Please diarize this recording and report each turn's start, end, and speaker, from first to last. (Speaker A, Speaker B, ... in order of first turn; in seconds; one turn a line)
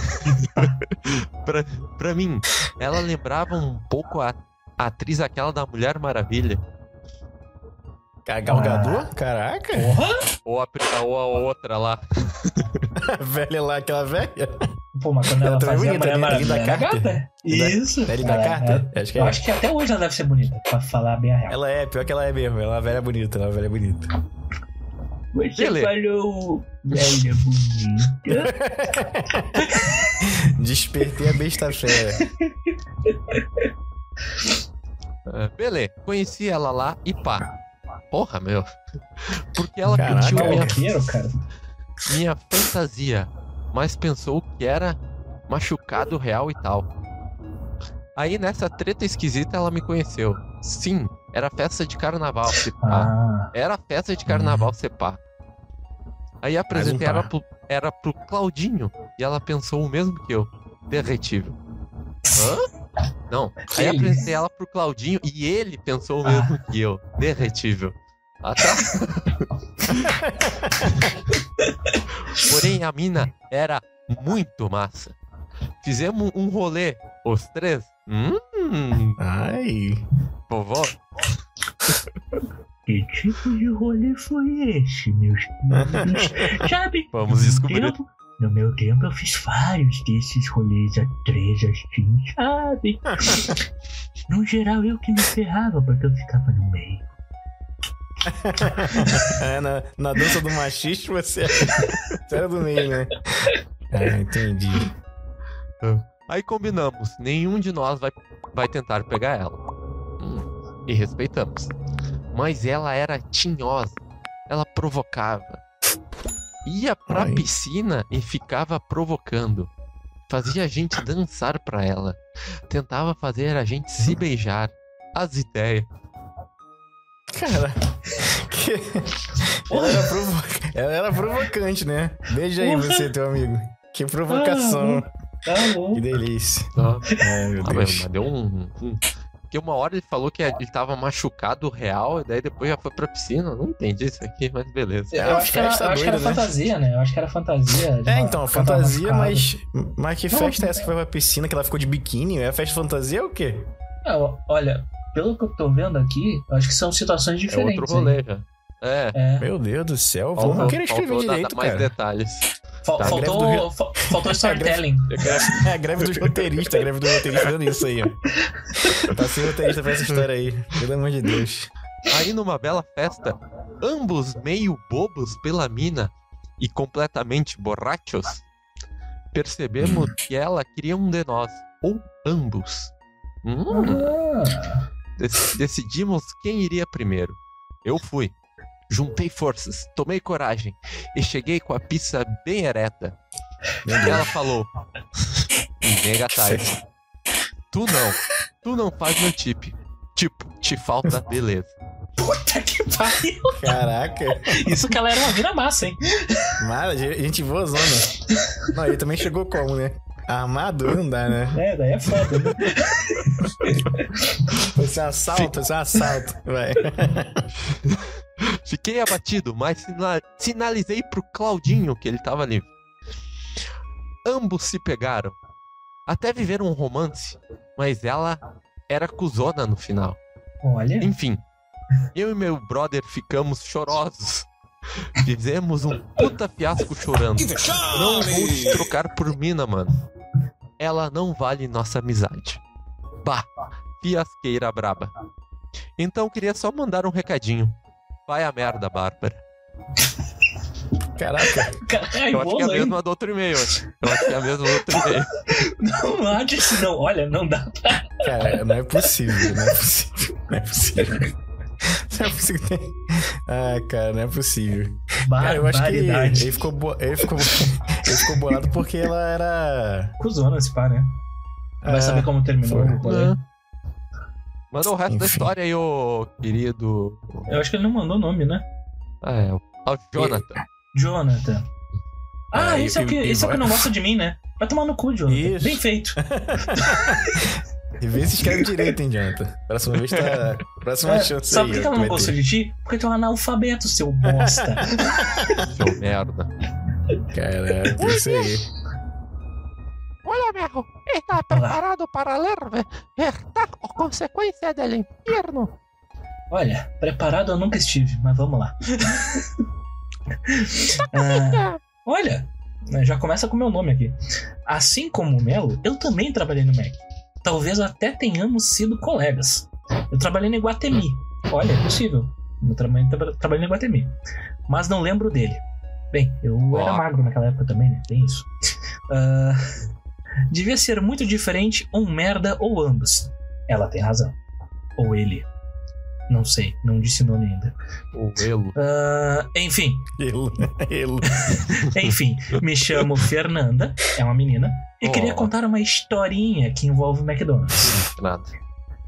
Speaker A: 0.2-0.8
Speaker B: 0.6-6.6
Speaker C: 8.2-10.0
Speaker A: 8.5-9.1
Speaker A: 9.7-10.2
Speaker B: 10.4-12.8
Speaker C: 12.9-14.7
Speaker A: 14.9-21.6
Speaker C: 15.3-19.4
Speaker C: 21.5-24.1
Speaker A: 25.3-28.6
Speaker B: 25.6-25.9
Speaker C: 28.3-32.2
Speaker A: 29.6-30.1
Speaker A: 32.2-32.5
Speaker A: 33.1-33.4
Speaker B: 35.3-37.5
Speaker B: 38.1-38.7
Speaker B: 39.3-40.9
Speaker C: 39.8-40.8
Speaker A: 40.0-41.4
Speaker B: 42.0-46.9
Speaker B: 48.1-55.2
Speaker A: 52.8-53.5
Speaker C: 54.3-54.6
Speaker B: 56.4-61.6
Speaker C: 56.7-57.3
Speaker B: 62.3-62.7
Speaker B: 63.3-70.1
Speaker A: 63.7-64.2
Speaker A: 66.2-66.6
Speaker C: 69.9-70.9
Speaker B: 72.3-75.2
Speaker B: 75.8-79.2
Speaker C: 79.2-80.0
Speaker B: 80.5-81.0
Speaker A: 82.8-93.6
Speaker C: 85.8-86.5
Speaker B: 87.1-88.0
Speaker A: 94.3-97.1
Speaker C: 98.2-104.9
Speaker A: 98.9-99.3
Speaker B: 105.8-109.6
Speaker B: 110.2-111.7
Speaker B: 112.3-115.6
Speaker B: 116.6-119.7
Speaker C: 117.1-117.4
Speaker B: 120.3-125.9
Speaker C: 127.3-135.1
Speaker A: 129.7-130.1
Speaker A: 132.6-133.1
Speaker A: 134.3-136.1
Speaker C: 135.9-138.1
Speaker B: 136.8-145.2
Speaker A: 145.1-149.5
Speaker C: 145.2-146.5
Speaker C: 148.0-153.7
Speaker A: 150.3-150.9
Speaker A: 154.0-158.2
Speaker B: 157.5-159.2
Speaker A: 159.1-159.5
Speaker C: 159.4-161.9
Speaker B: 160.3-163.3
Speaker A: 162.8-165.6
Speaker C: 163.0-164.9
Speaker B: 165.1-166.1
Speaker C: 165.5-168.2
Speaker A: 168.6-169.1
Speaker C: 169.1-171.7
Speaker B: 172.1-178.4
Speaker B: 179.3-182.9
Speaker B: 183.4-184.1
Speaker A: 183.7-184.8
Speaker B: 185.2-188.3
Speaker B: 188.9-193.2
Speaker C: 193.8-194.3
Speaker B: 194.0-194.7
Speaker B: 195.8-196.8
Speaker C: 196.3-196.8
Speaker B: 197.7-201.7
Speaker A: 202.2-203.7
Speaker C: 203.6-204.8
Speaker A: 204.5-206.5
Speaker C: 206.6-208.1
Speaker C: 208.7-211.6
Speaker A: 211.5-214.5
Speaker C: 214.7-217.5
Speaker B: 217.9-222.7
Speaker B: 224.2-225.4
Speaker B: 226.1-230.2
Speaker A: 230.6-231.1
Speaker B: 231.0-231.4
Speaker B: 232.1-234.5
Speaker B: 235.1-240.0
Speaker B: 240.8-242.6
Speaker B: 243.2-245.1
Speaker B: 246.0-247.8
Speaker B: 248.3-249.4
Speaker C: 251.2-251.8
Speaker A: 251.5-253.0
Speaker B: 252.3-255.3
Speaker A: 254.0-258.6
Speaker C: 258.2-261.3
Speaker A: 259.3-259.7
Speaker C: 261.8-270.1
Speaker A: 265.2-266.6
Speaker A: 268.1-268.6
Speaker A: 270.2-271.2
Speaker C: 271.8-273.0
Speaker A: 271.8-273.4
Speaker B: 273.0-273.4
Speaker B: 274.7-277.5
Speaker C: 275.1-275.5
Speaker A: 277.5-278.6
Speaker B: 279.2-280.6
Speaker C: 280.2-280.5
Speaker A: 280.9-281.6
Speaker A: 282.5-287.5
Speaker C: 282.5-283.9
Speaker C: 285.3-292.4
Speaker A: 288.4-288.9
Speaker B: 290.1-290.5
Speaker A: 291.0-295.7
Speaker C: 294.3-294.6
Speaker B: 295.7-296.5
Speaker C: 297.3-298.7
Speaker D: 297.9-298.5
Speaker D: 300.2-305.7
Speaker A: 301.5-301.8
Speaker A: 306.5-309.5
Speaker A: 310.4-324.1
Speaker D: 311.1-311.8
Speaker A: 324.7-328.5
Speaker B: 326.7-327.0
Speaker A: 329.1-329.6
Speaker A: 330.5-334.4
Speaker A: 335.0-335.5
Speaker A: 336.3-337.7
Speaker B: 338.1-338.8
Speaker A: 338.7-340.1
Speaker C: 340.2-341.7
Speaker A: 341.5-347.9
Speaker B: 345.0-345.5
Speaker B: 347.8-348.5